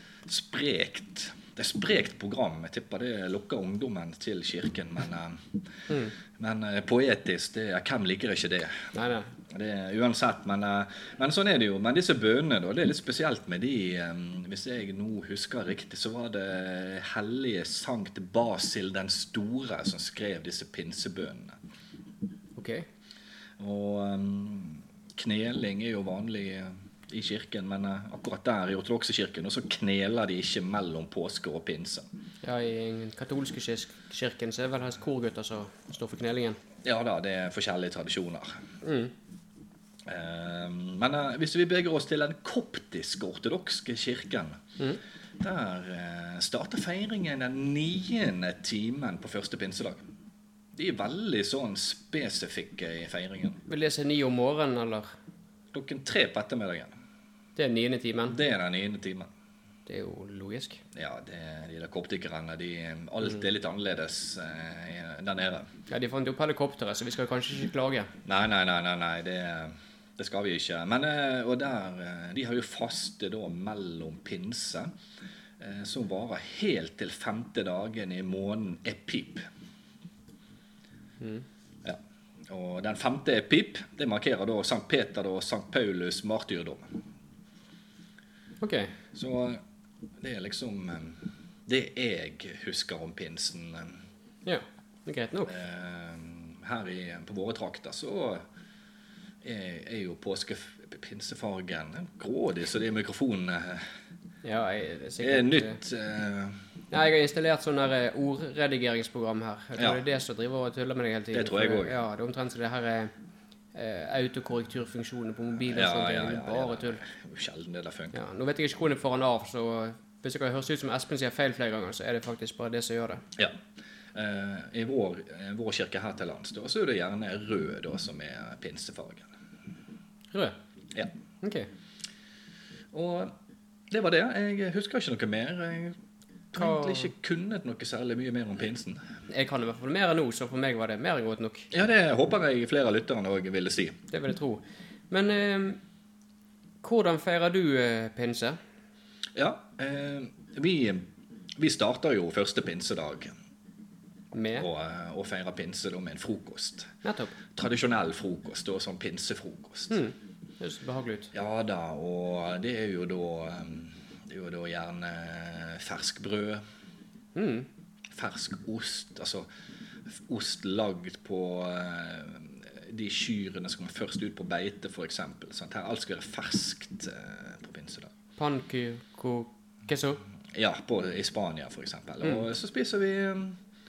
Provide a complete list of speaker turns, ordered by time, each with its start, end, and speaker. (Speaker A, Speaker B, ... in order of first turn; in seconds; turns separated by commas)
Speaker A: 0.3-5.5, Speaker A: 6.4-8.9, Speaker B: 8.9-9.3, Speaker A: 9.5-21.6, Speaker B: 22.6-22.9, Speaker A: 23.6-32.1, Speaker B: 32.4-36.6, Speaker A: 36.8-38.6, Speaker B: 38.8-39.1, Speaker A: 40.1-44.6, Speaker A: 45.4-50.1, Speaker A: 50.8-53.6, Speaker B: 53.7-55.1, Speaker A: 55.7-56.9, Speaker B: 57.6-58.4, Speaker A: 58.3-59.3, Speaker B: 59.9-60.8, Speaker A: 60.9-65.7, Speaker B: 65.9-68.1, Speaker A: 68.2-74.9, Speaker A: 75.6-79.5, Speaker B: 81.2-81.5, Speaker A: 81.8-86.9, Speaker B: 88.6-88.9, Speaker A: 89.1-89.6, Speaker A: 90.2-94.0, Speaker B: 94.5-95.5, Speaker A: 95.5-98.5, Speaker A: 99.4-103.9, Speaker B: 104.4-105.8, Speaker A: 105.2-106.6, Speaker B: 106.9-113.1, Speaker A: 109.8-110.0, Speaker A: 111.3-112.0, Speaker B: 113.7-117.0, Speaker A: 115.7-118.2, Speaker B: 118.1-123.2, Speaker A: 124.1-129.3, Speaker B: 130.3-130.6, Speaker B: 131.4-131.7, Speaker A: 132.9-133.3, Speaker A: 133.9-136.0, Speaker A: 136.5-139.0, Speaker B: 136.6-137.1, Speaker B: 139.3-141.7, Speaker A: 141.7-144.0, Speaker B: 144.1-145.8, Speaker B: 146.8-148.6, Speaker A: 149.4-153.3, Speaker B: 154.3-154.7, Speaker A: 154.6-156.9, Speaker B: 157.0-157.4, Speaker A: 157.5-160.0, Speaker B: 159.9-161.3, Speaker A: 161.3-166.6, Speaker B: 167.4-167.7, Speaker A: 168.1-169.5, Speaker A: 170.1-178.1, Speaker B: 178.4-180.2, Speaker A: 180.6-183.6